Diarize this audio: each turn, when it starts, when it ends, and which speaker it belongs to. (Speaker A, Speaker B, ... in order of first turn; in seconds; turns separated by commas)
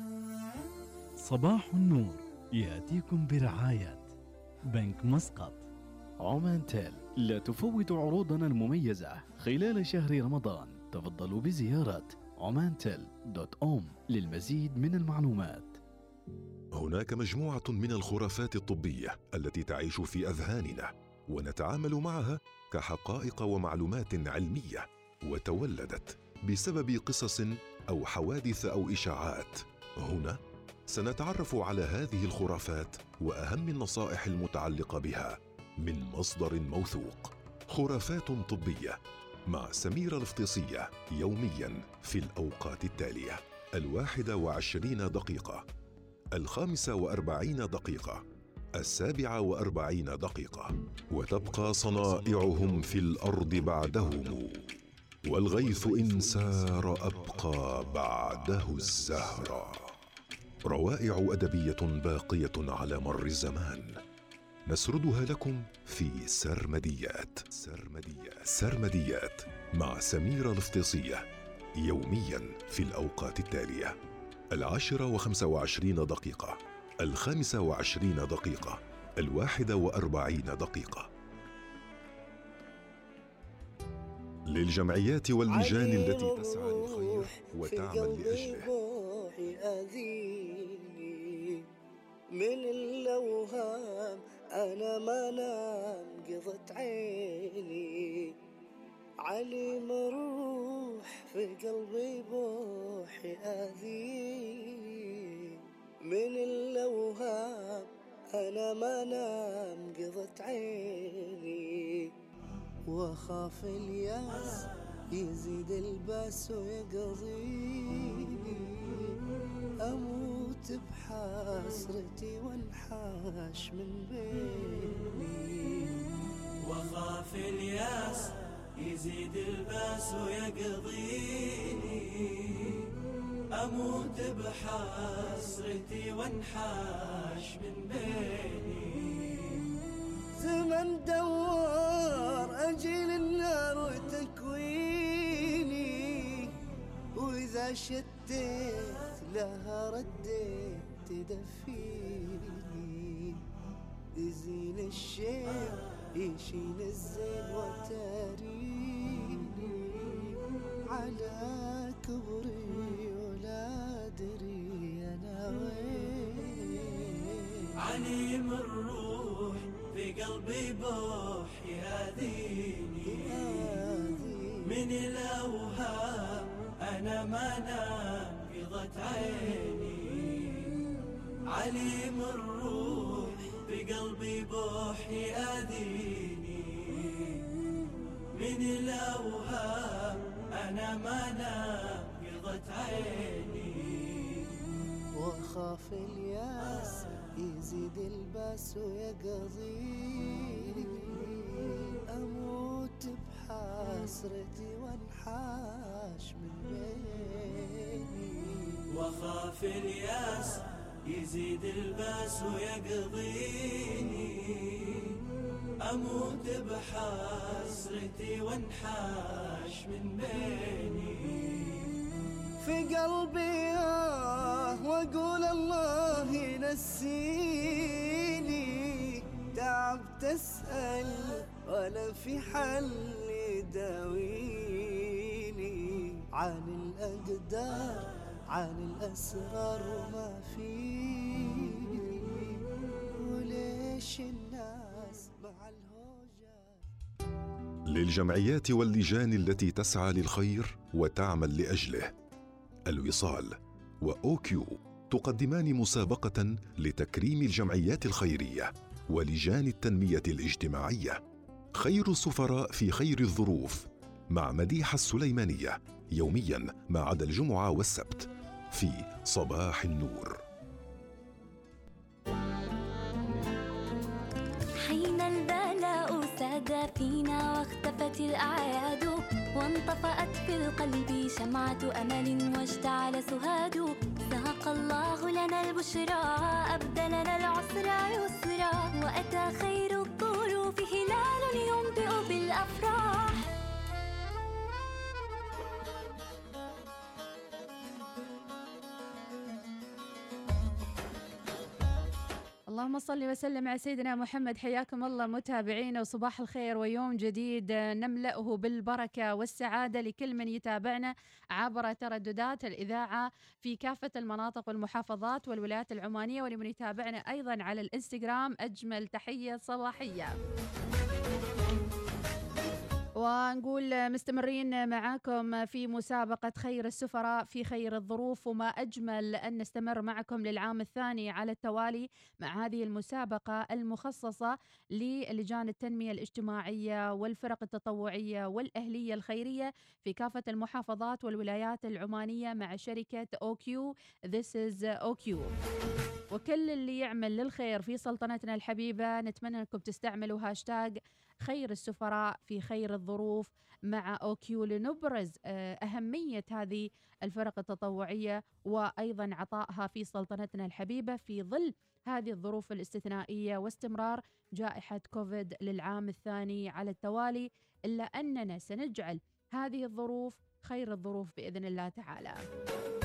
Speaker A: 1.2-4.1, Speaker A: 4.7-5.7, Speaker A: 6.2-15.8, Speaker B: 16.7-45.6, Speaker B: 46.3-48.2, Speaker B: 48.8-59.9, Speaker B: 60.6-64.0, Speaker B: 64.7-74.0, Speaker B: 74.5-81.1, Speaker B: 84.5-88.7, Speaker C: 85.5-91.6, Speaker C: 92.3-98.3, Speaker C: 99.2-112.1, Speaker C: 112.9-119.2, Speaker C: 119.8-126.0, Speaker D: 126.7-132.8, Speaker D: 133.6-139.3, Speaker C: 140.4-146.5, Speaker C: 147.2-153.4, Speaker C: 154.2-160.4, Speaker C: 160.9-167.6, Speaker D: 167.8-173.4, Speaker C: 173.1-174.5, Speaker D: 174.7-180.7, Speaker D: 181.5-187.4, Speaker D: 188.3-194.2, Speaker C: 195.2-208.8, Speaker D: 208.9-215.2, Speaker D: 215.8-221.9, Speaker C: 222.6-246.8, Speaker B: 247.9-252.1, Speaker B: 252.9-261.2, Speaker B: 261.7-270.4, Speaker E: 274.8-293.4, Speaker F: 302.7-320.4, Speaker F: 323.2-345.5, Speaker F: 346.3-372.4